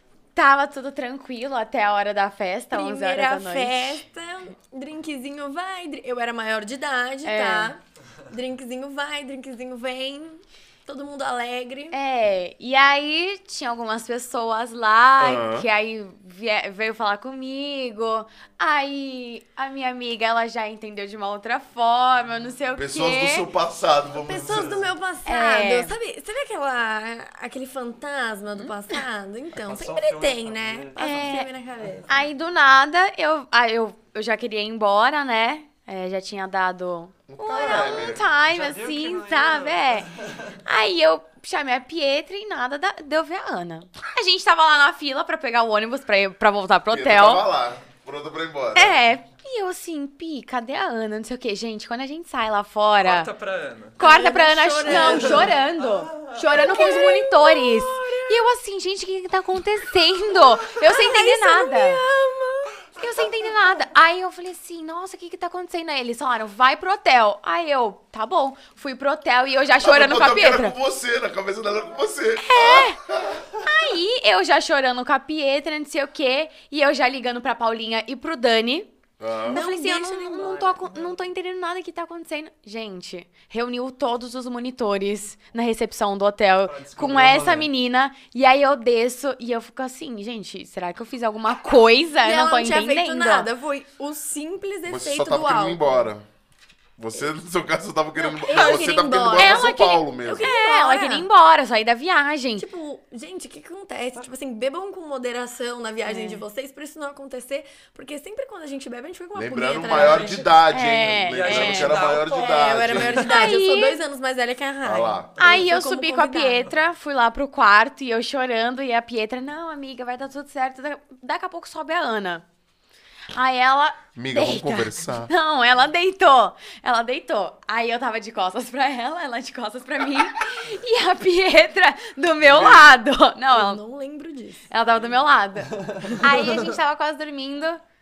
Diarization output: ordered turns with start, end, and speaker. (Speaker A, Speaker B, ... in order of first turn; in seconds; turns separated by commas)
Speaker A: 0.3-4.0, Speaker B: 2.7-12.0, Speaker A: 7.2-7.7, Speaker A: 11.9-23.5, Speaker C: 15.2-15.7, Speaker C: 22.8-24.9, Speaker B: 24.2-32.2, Speaker A: 25.2-25.9, Speaker D: 29.5-31.3, Speaker A: 30.9-31.5, Speaker A: 32.1-40.1, Speaker C: 37.3-38.2, Speaker B: 37.5-38.1, Speaker D: 38.3-40.6, Speaker A: 40.6-47.4, Speaker C: 46.9-49.0, Speaker A: 48.7-53.3, Speaker D: 53.0-54.0, Speaker A: 54.0-62.0, Speaker B: 54.0-55.5, Speaker D: 54.8-57.0, Speaker B: 56.5-58.4, Speaker B: 60.6-62.9, Speaker A: 63.0-70.8, Speaker C: 69.8-73.5, Speaker A: 72.4-73.0, Speaker A: 73.6-78.9, Speaker C: 79.2-79.6, Speaker B: 79.4-81.1, Speaker A: 79.5-93.5, Speaker D: 86.6-87.7, Speaker B: 92.2-96.1, Speaker C: 94.8-96.3, Speaker C: 97.0-100.5, Speaker B: 98.2-101.3, Speaker A: 98.5-102.6, Speaker B: 102.5-110.5, Speaker A: 106.0-106.4, Speaker C: 109.3-113.2, Speaker D: 109.9-110.6, Speaker A: 110.7-112.0, Speaker D: 111.3-113.5, Speaker B: 112.1-116.7, Speaker A: 113.2-114.0, Speaker C: 114.8-115.3, Speaker A: 115.4-122.4, Speaker A: 123.3-133.8, Speaker C: 124.1-125.3, Speaker C: 132.4-133.0, Speaker B: 133.5-134.7, Speaker A: 134.7-137.8, Speaker D: 135.7-136.2, Speaker B: 136.2-136.7